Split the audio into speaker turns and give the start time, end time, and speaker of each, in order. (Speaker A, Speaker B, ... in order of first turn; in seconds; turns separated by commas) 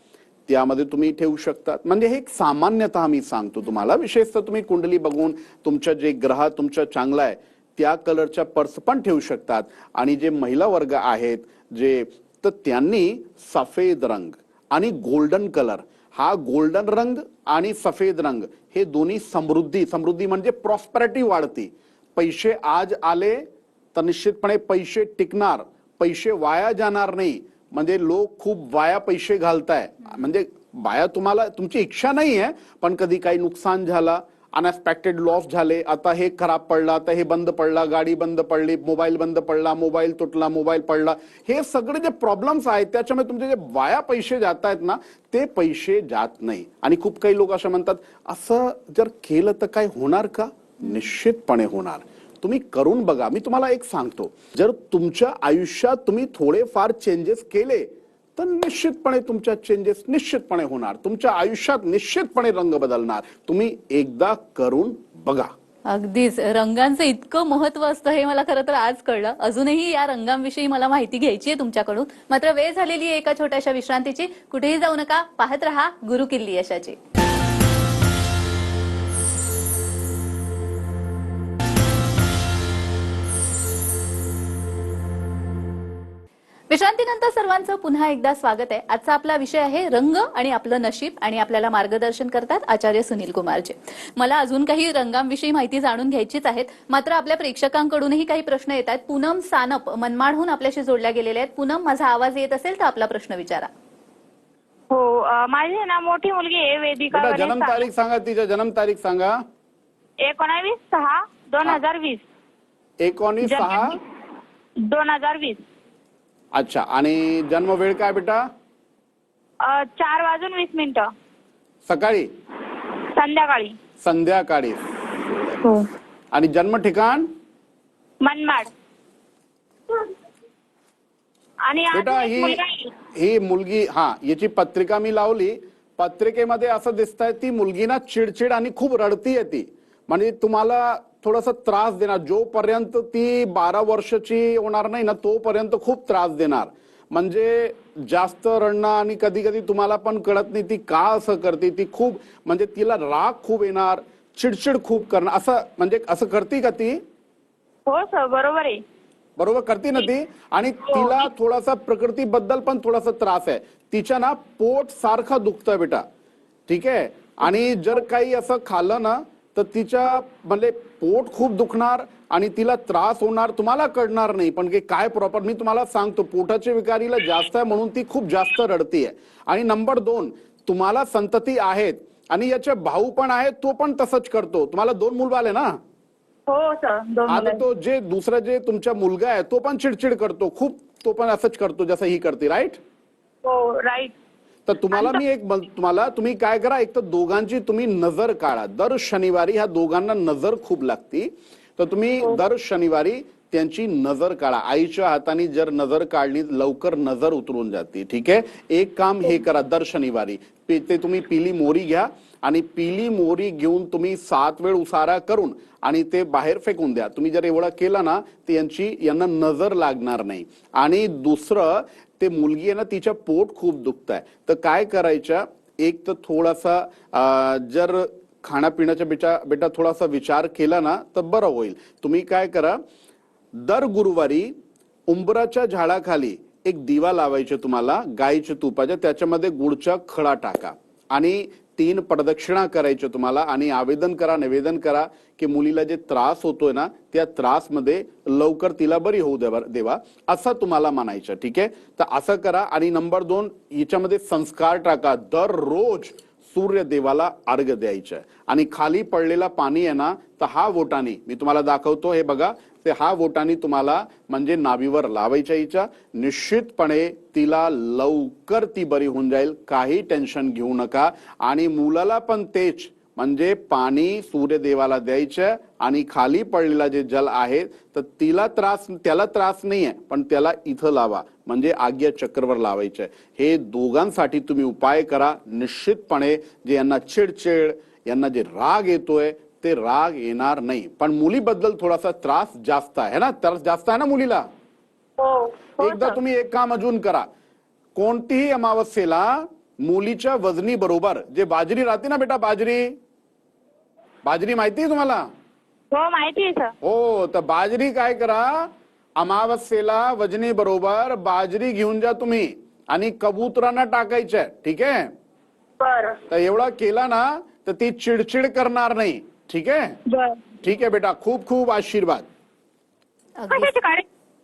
Speaker A: 0.5-65.5, Speaker B: 65.9-77.0, Speaker B: 86.7-103.7, Speaker C: 104.9-107.8, Speaker A: 107.1-109.4, Speaker C: 110.2-112.2, Speaker A: 113.0-114.0, Speaker C: 113.4-114.0, Speaker C: 114.8-115.6, Speaker A: 116.5-118.4, Speaker C: 119.6-121.1, Speaker A: 121.8-122.3, Speaker C: 123.1-123.8, Speaker A: 124.0-125.6, Speaker A: 126.3-127.3, Speaker C: 128.2-128.7, Speaker C: 131.7-132.9, Speaker A: 131.9-132.6, Speaker A: 133.1-157.0, Speaker C: 157.8-158.8, Speaker A: 159.4-166.0, Speaker C: 160.9-161.2, Speaker A: 166.7-185.8, Speaker C: 186.5-187.6, Speaker A: 187.3-192.8, Speaker C: 193.4-194.1, Speaker A: 194.7-232.8, Speaker C: 194.9-195.2, Speaker A: 233.5-234.5, Speaker A: 235.1-294.4, Speaker C: 295.2-296.2, Speaker A: 295.8-297.3, Speaker A: 297.9-302.9, Speaker A: 304.2-305.3, Speaker C: 305.9-306.7, Speaker A: 306.8-315.1, Speaker C: 315.8-316.2, Speaker A: 316.3-319.9, Speaker C: 320.1-320.5, Speaker A: 320.6-322.2, Speaker B: 323.4-323.7, Speaker C: 323.5-324.0